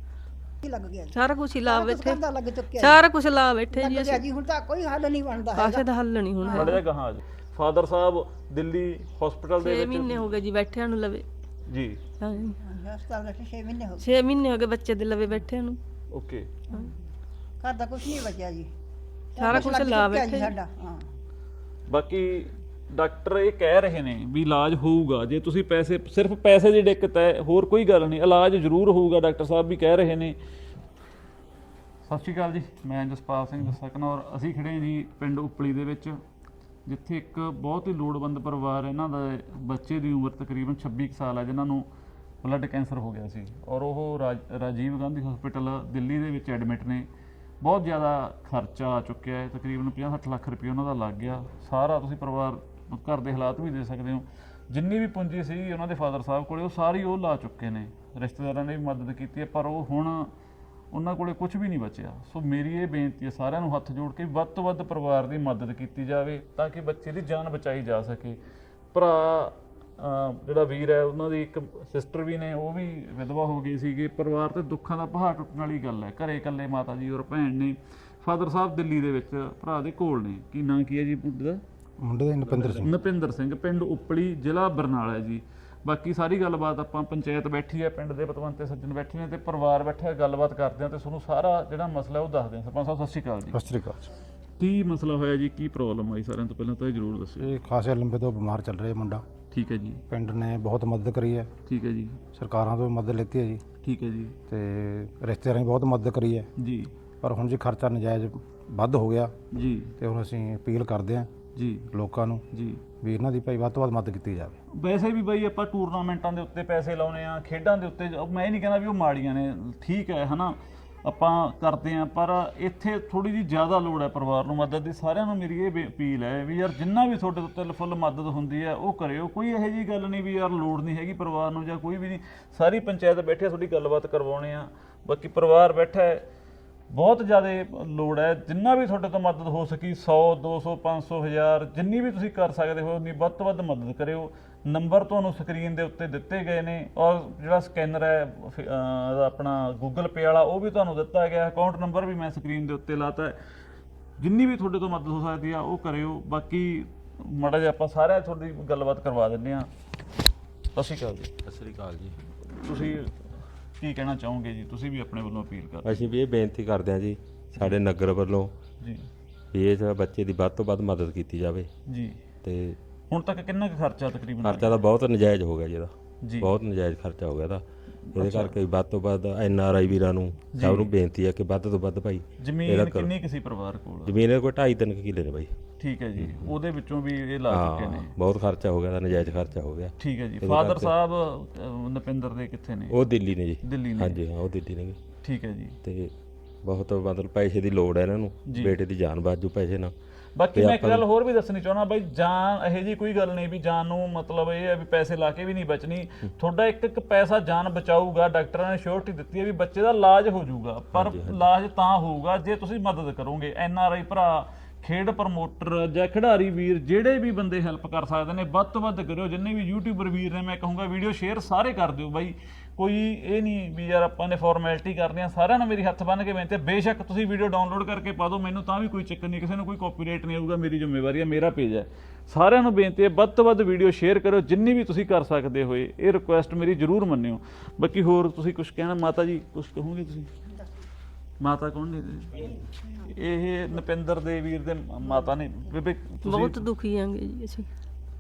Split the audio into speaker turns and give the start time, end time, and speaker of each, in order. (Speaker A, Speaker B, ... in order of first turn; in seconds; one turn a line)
Speaker A: 0.6-3.1
Speaker B: 1.1-2.2
Speaker B: 2.8-4.2
Speaker A: 3.7-5.9
Speaker B: 5.6-6.8
Speaker A: 6.4-6.8
Speaker C: 6.5-10.4
Speaker B: 9.9-11.2
Speaker C: 11.7-12.0
Speaker B: 12.2-12.5
Speaker A: 12.6-14.1
Speaker B: 14.0-15.8
Speaker C: 16.1-16.5
Speaker A: 17.6-18.7
Speaker A: 19.3-21.0
Speaker B: 19.4-20.5
Speaker C: 21.9-30.4
Speaker C: 32.1-36.2
Speaker C: 36.9-41.9
Speaker C: 42.4-47.1
Speaker C: 47.6-60.3
Speaker C: 60.9-68.4
Speaker C: 68.9-81.6
Speaker D: 82.0-82.9
Speaker C: 82.4-93.6
Speaker D: 93.5-94.1
Speaker C: 94.6-97.5
Speaker D: 97.4-99.2
Speaker C: 99.5-100.0
Speaker D: 100.1-101.5
Speaker C: 101.7-102.2
Speaker D: 102.3-103.6
Speaker C: 103.8-104.4
Speaker D: 104.5-106.5
Speaker C: 106.6-106.9
Speaker D: 107.2-109.3
Speaker C: 109.5-109.9
Speaker D: 110.0-111.3
Speaker C: 111.6-111.9
Speaker D: 111.9-112.4
Speaker C: 112.5-112.8
Speaker D: 113.0-114.5
Speaker C: 114.8-136.2
Speaker C: 136.9-153.4
Speaker C: 154.2-159.7
Speaker C: 160.8-161.3
Speaker E: 161.4-162.2
Speaker C: 162.5-163.2
Speaker C: 163.8-166.1
Speaker E: 165.8-168.5
Speaker C: 167.5-167.8
Speaker C: 168.8-169.1
Speaker E: 169.5-171.7
Speaker C: 171.9-172.2
Speaker E: 172.4-172.8
Speaker C: 173.1-174.8
Speaker E: 174.4-183.2
Speaker C: 176.2-176.5
Speaker C: 178.1-178.6
Speaker C: 180.5-180.9
Speaker C: 182.4-184.2
Speaker E: 184.1-185.5
Speaker C: 185.8-188.2
Speaker E: 186.2-186.5
Speaker E: 187.5-190.9
Speaker C: 190.0-193.0
Speaker E: 192.9-195.0
Speaker C: 193.6-194.2
Speaker C: 195.2-195.8
Speaker E: 195.8-196.1
Speaker E: 196.6-199.9
Speaker C: 198.5-198.8
Speaker C: 200.4-240.3
Speaker E: 200.5-201.1
Speaker E: 210.9-211.4
Speaker C: 241.4-246.7
Speaker B: 246.6-247.7